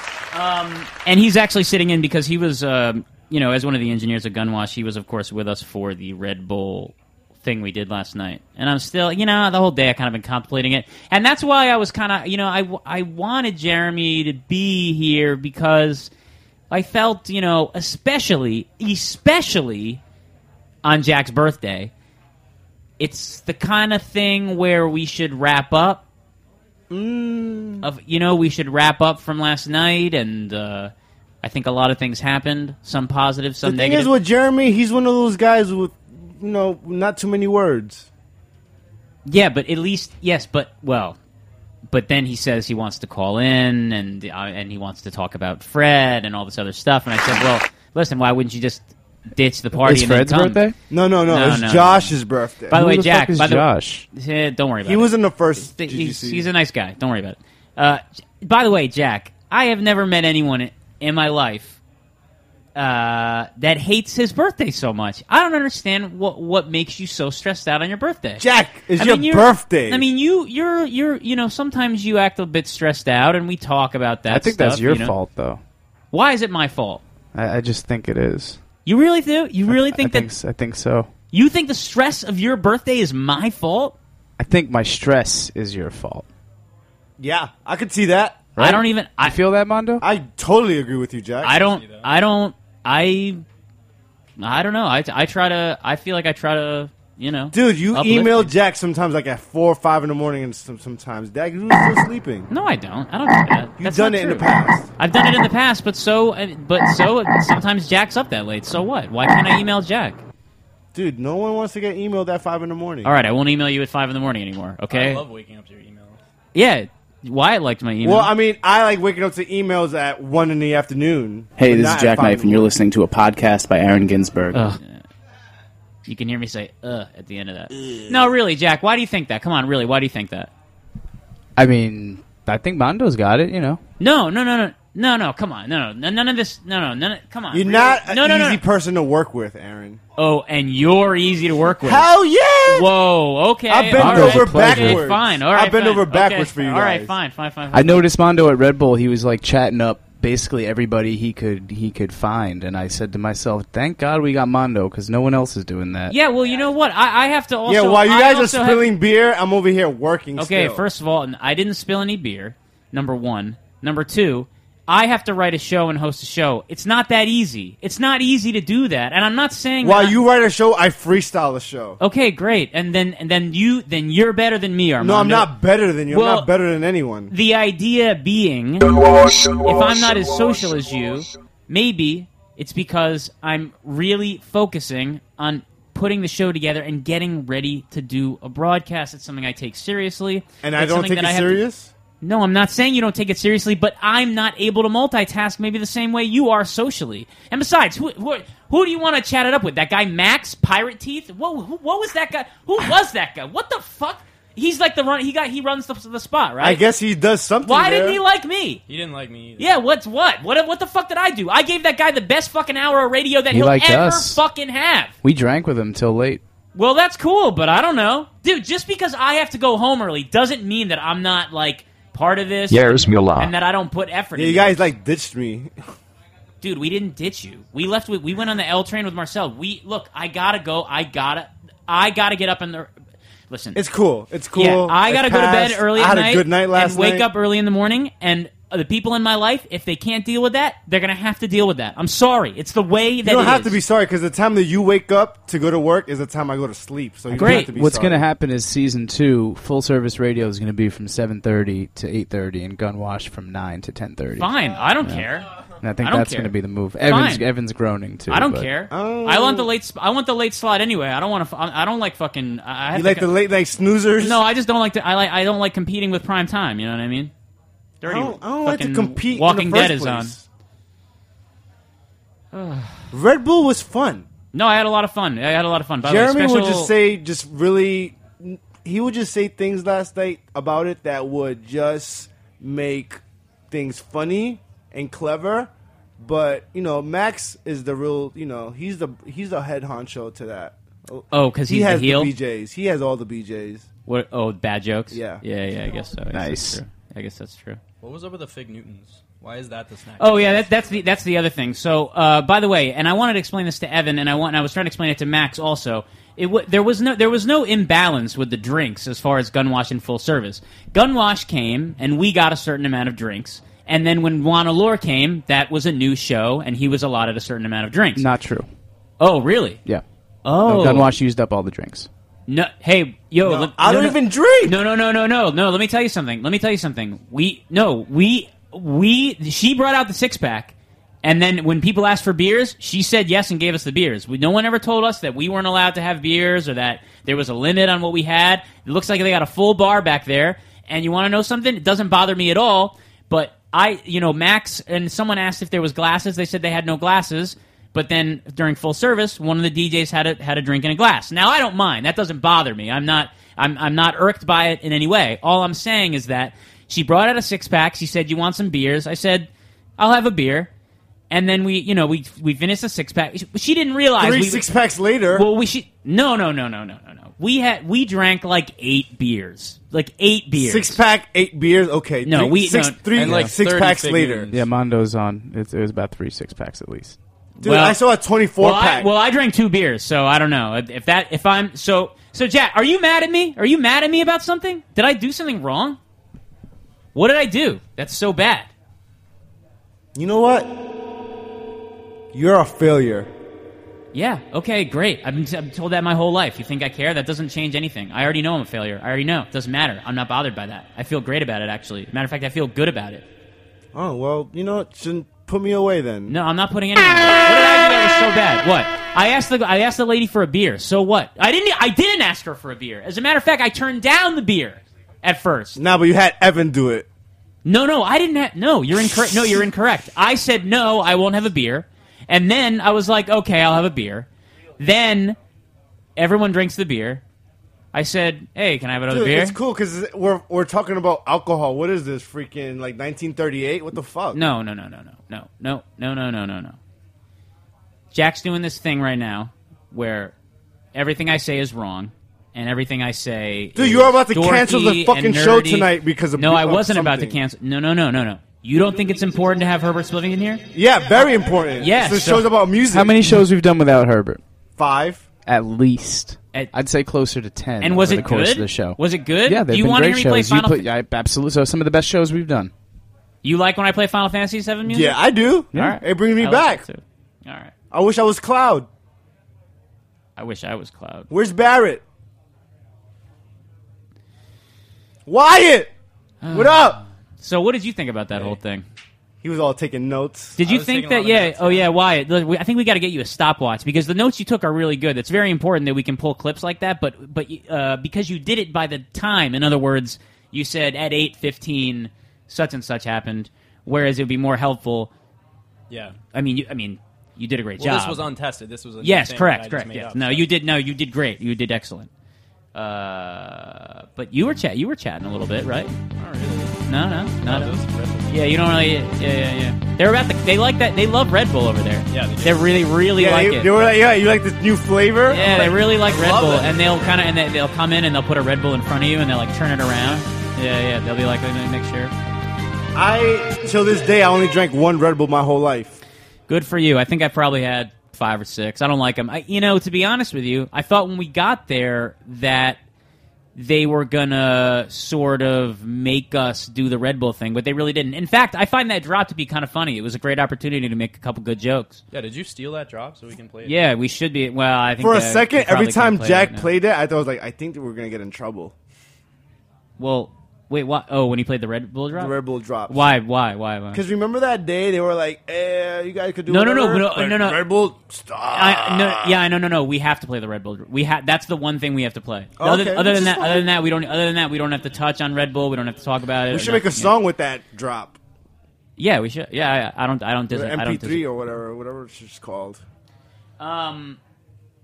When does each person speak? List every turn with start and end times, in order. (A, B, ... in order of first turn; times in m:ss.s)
0:00.3-0:16.1 A
0:16.7-0:20.0 A
0:20.8-0:21.9 A
0:23.0-0:26.0 A
0:26.9-0:27.8 B
0:27.8-0:30.9 A
0:31.4-0:34.1 A
0:33.6-0:38.1 B
0:39.2-0:41.2 A
0:41.9-0:50.6 A
0:49.8-0:50.8 C
0:50.9-0:52.8 B
0:51.3-0:52.1 A
0:52.7-1:01.8 A
0:52.7-0:54.0 C
0:54.8-0:56.5 B
1:02.7-1:08.4 A
1:08.4-1:10.0 B
1:09.0-1:15.1 A
1:14.3-1:15.6 C
1:16.1-1:17.0 A
1:17.3-1:18.6 C
1:18.8-1:20.3 A
1:19.7-1:21.1 C
1:21.3-1:24.0 A
1:24.4-1:26.3 C
1:27.2-1:28.4 B
1:28.6-1:30.0 C
1:28.6-1:29.4 A
1:30.0-1:31.6 B
1:31.4-1:33.4 A
1:31.6-1:32.1 D
1:34.4-1:38.5 A
1:37.5-1:42.5 B
1:42.5-1:50.2 A
1:43.8-1:44.9 B
1:50.9-1:53.1 B
1:53.0-1:55.2 A
1:54.9-1:56.2 D
1:56.5-1:58.3 A
1:58.0-2:02.7 B
2:01.6-2:04.8 C
2:04.5-2:05.0 A
2:06.1-2:10.5 A
2:11.6-2:13.8 C
2:14.0-2:18.6 A
2:17.5-2:20.0 B
2:20.2-2:22.1 A
2:21.8-2:22.9 B
2:22.6-2:28.0 A
2:23.7-2:27.1 B
2:23.9-2:25.0 C
2:27.7-2:36.1 C
2:36.1-2:38.9 A
2:37.7-2:40.8 B
2:40.4-2:50.2 A
2:49.8-2:52.0 B
2:52.0-2:55.5 A
2:55.0-2:57.3 B
2:56.1-2:56.5 A
2:57.3-2:58.8 A
2:59.6-3:11.6 A
3:10.6-3:11.9 B
3:12.2-3:26.8 A
3:26.6-3:28.2 B
3:27.6-3:28.8 A
3:28.9-3:29.8 D
3:29.6-3:35.1 A
3:33.5-3:34.4 C
3:35.2-3:36.4 C
3:36.7-3:44.9 A
3:42.8-3:43.4 C
3:44.4-3:45.7 B
3:46.6-3:52.9 A
3:53.5-3:53.8 A
3:53.7-3:57.2 B
3:54.5-4:03.8 A
4:03.2-4:08.2 B
4:07.3-4:14.5 C
4:07.4-4:07.7 A
4:14.4-4:15.5 A
4:15.0-4:15.3 C
4:15.8-4:18.7 C
4:16.0-4:16.5 A
4:17.0-4:17.4 A
4:18.3-4:23.3 A
4:18.9-4:19.7 B
4:22.9-4:24.4 B
4:24.2-4:27.3 A
4:28.0-4:30.3 A
4:28.0-4:30.4 B
4:32.5-4:33.1 A
4:33.1-4:34.3 B
4:34.5-4:36.9 A
4:36.0-4:53.9 B
4:51.3-4:52.3 A
4:54.1-4:57.8 A
4:55.1-4:55.4 B
4:56.3-4:56.8 C
4:58.0-5:01.0 D
5:00.2-5:18.2 A
5:18.1-5:18.7 C
5:19.2-5:19.8 A
5:20.4-5:21.1 A
5:20.6-5:22.1 C
5:22.5-6:00.7 A
5:23.4-5:24.8 B
6:01.3-6:04.6 A
6:04.2-6:05.5 B
6:05.3-6:11.0 A
6:10.6-6:14.5 B
6:12.2-6:13.0 A
6:13.1-6:14.6 D
6:14.5-6:17.2 C
6:17.6-6:19.1 B
6:17.6-6:18.0 A
6:18.6-6:26.0 A
6:27.1-6:28.7 A
6:30.2-6:30.7 B
6:32.3-6:33.3 B
6:34.1-6:43.2 A
6:43.9-6:46.4 B
6:46.3-6:55.8 A
6:55.8-6:57.1 B
6:57.6-7:04.3 A
7:04.8-7:05.4 A
7:06.2-7:07.2 A
7:07.9-7:09.6 A
7:09.1-7:14.4 B
7:14.3-7:16.8 A
7:18.1-7:20.3 A
7:20.9-7:30.6 A
7:23.7-7:27.4 B
7:30.7-7:33.2 B
7:31.8-7:32.5 A
7:32.9-7:34.4 C
7:34.8-7:35.2 B
7:35.4-7:42.7 C
7:37.8-7:40.8 A
7:43.4-7:45.2 A
7:44.8-7:46.8 B
7:45.7-7:46.0 C
7:45.7-7:47.7 A
7:47.9-7:48.9 B
7:50.4-7:51.3 A
7:51.3-7:52.0 B
7:55.3-7:55.9 B
7:56.4-7:58.8 A
7:56.5-7:57.0 B
7:59.4-8:00.6 B
8:00.6-8:15.1 A
8:00.6-8:01.9 D
8:15.9-8:16.2 D
8:16.3-8:18.2 A
8:17.8-8:20.5 D
8:19.0-8:22.1 A
8:22.7-8:25.9 A
8:26.2-8:26.8 D
8:26.8-8:27.8 A
8:27.4-8:28.7 D
8:28.3-8:33.7 A
8:32.1-8:32.7 D
8:33.2-8:35.7 B
8:35.3-8:42.1 A
8:35.5-8:36.8 D
8:42.9-8:46.0 B
8:46.5-8:52.8 A
8:53.5-9:02.0 A
9:02.1-9:03.8 D
9:03.6-9:06.7 A
9:05.0-9:08.7 B
9:10.0-9:12.3 A
9:12.1-9:13.0 B
9:12.9-9:14.0 A
9:13.9-9:19.4 B
9:16.5-9:17.6 A
9:18.5-9:27.1 A
9:22.6-9:23.7 B
9:26.5-9:28.2 B
9:29.0-9:31.2 A
9:30.5-9:32.8 B
9:33.6-9:34.2 A